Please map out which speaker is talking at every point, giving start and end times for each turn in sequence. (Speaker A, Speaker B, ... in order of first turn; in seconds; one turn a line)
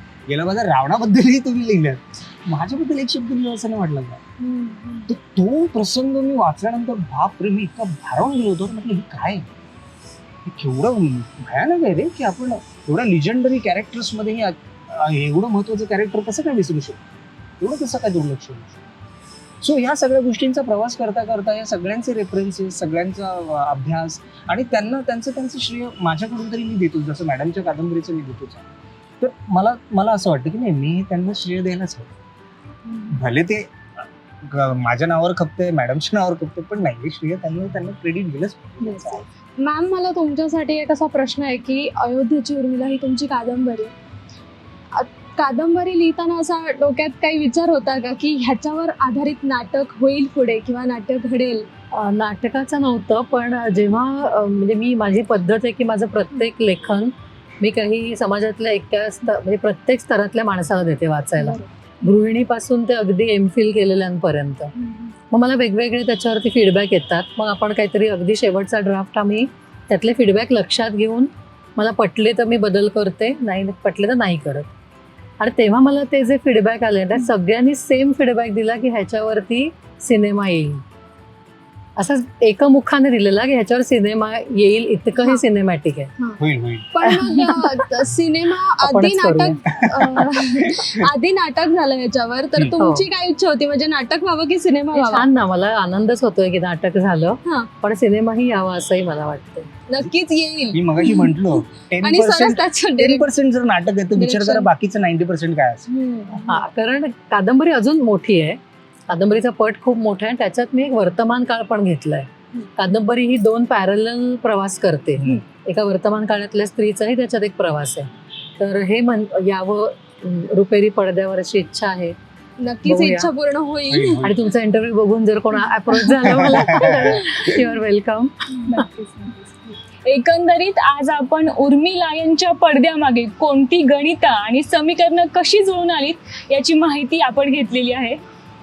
Speaker A: 0.3-4.2
Speaker B: 4.4-5.1
Speaker A: 5.1-9.5
Speaker A: 10.4-17.0
Speaker A: 17.6-18.8
Speaker A: 19.6-28.6
Speaker A: 29.2-32.1
Speaker A: 33.1-39.2
Speaker B: 38.8-43.9
Speaker B: 44.9-51.7
Speaker C: 51.9-64.7
Speaker B: 61.4-61.7
Speaker B: 64.8-65.1
Speaker C: 65.3-74.7
Speaker C: 75.4-80.8
Speaker C: 82.0-86.1
Speaker A: 86.4-86.9
Speaker B: 86.9-95.3
Speaker C: 87.0-87.8
Speaker C: 88.8-90.3
Speaker A: 89.8-91.0
Speaker C: 92.8-93.1
Speaker C: 95.0-99.7
Speaker B: 99.9-103.3
Speaker A: 100.7-105.9
Speaker B: 104.2-104.7
Speaker B: 105.9-106.6
Speaker C: 106.4-122.2
Speaker B: 122.6-124.2
Speaker C: 122.9-123.3
Speaker A: 123.9-124.3
Speaker C: 124.2-128.8
Speaker A: 126.3-127.6
Speaker D: 128.7-138.2